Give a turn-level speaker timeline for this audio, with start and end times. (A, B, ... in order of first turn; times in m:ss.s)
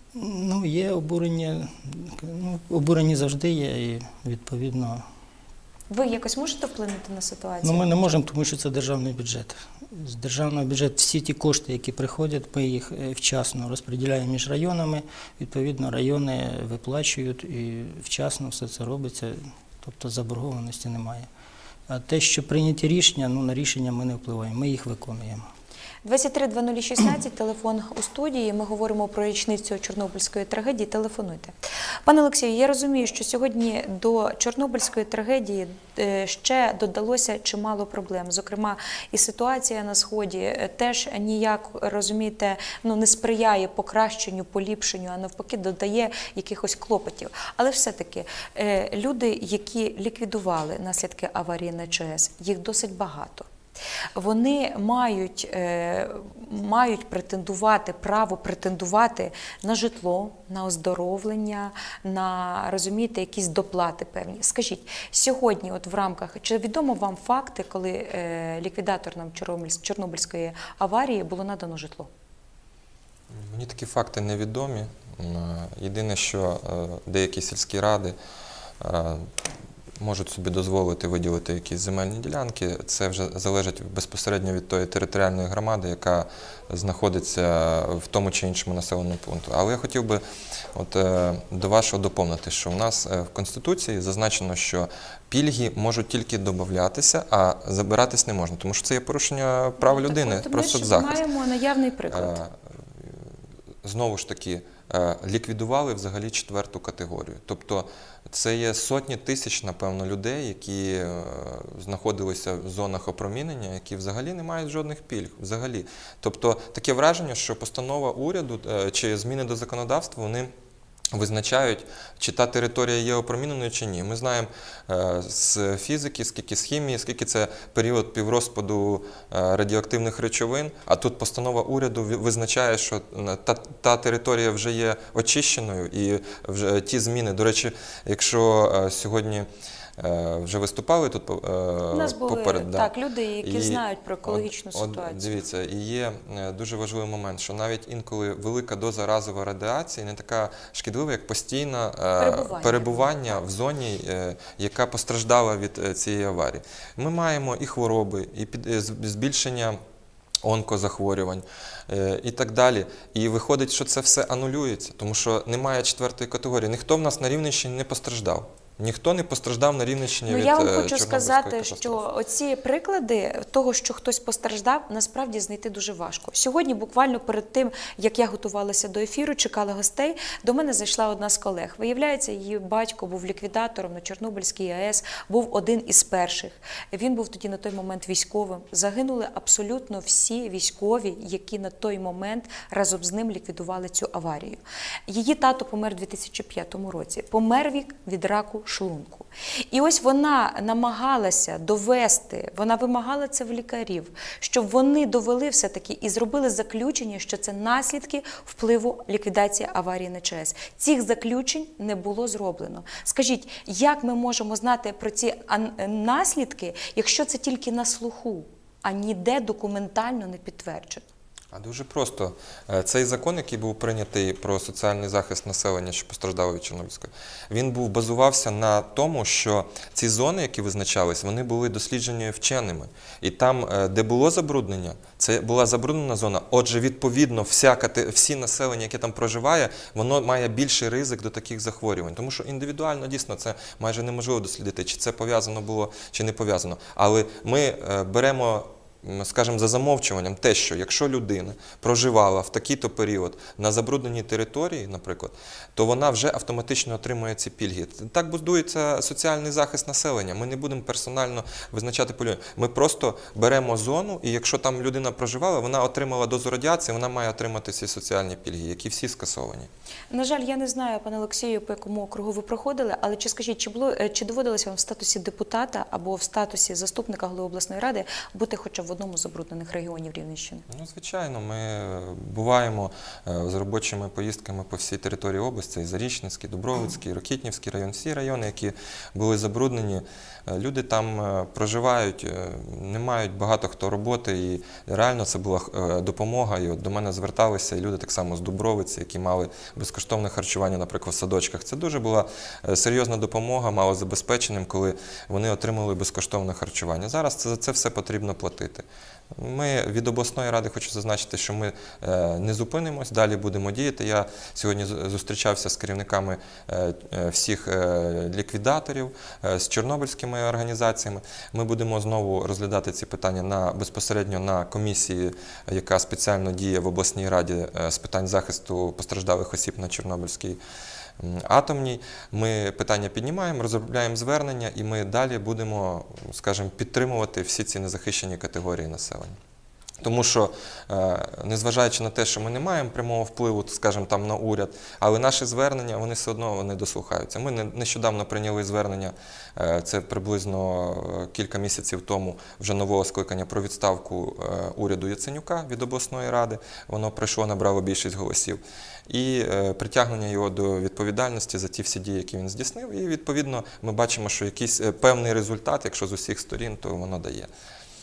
0:00.1-0:05.0 A
0:05.9-0:08.0 B
0:07.6-0:21.3 A
0:21.9-0:25.4 A
0:26.0-0:31.5 B
0:32.0-0:53.5 B
0:54.2-1:12.1 B
1:13.3-1:18.1 C
1:18.8-1:19.2 C
1:20.0-1:30.2 C
1:30.7-1:41.2 C
1:39.8-1:42.4 B
1:42.1-1:42.5 C
1:43.8-2:00.5 C
2:01.1-2:19.5 C
2:20.0-2:22.9 C
2:21.9-2:25.4 B
2:23.4-2:39.8 C
2:32.2-2:33.4 B
2:40.4-2:52.0 C
2:50.2-3:41.0 B
3:41.5-4:29.7 C
4:30.1-4:40.6 B
4:40.7-5:08.8 C
5:09.4-5:30.6 C
5:31.2-5:39.4 C
5:40.0-6:07.5 C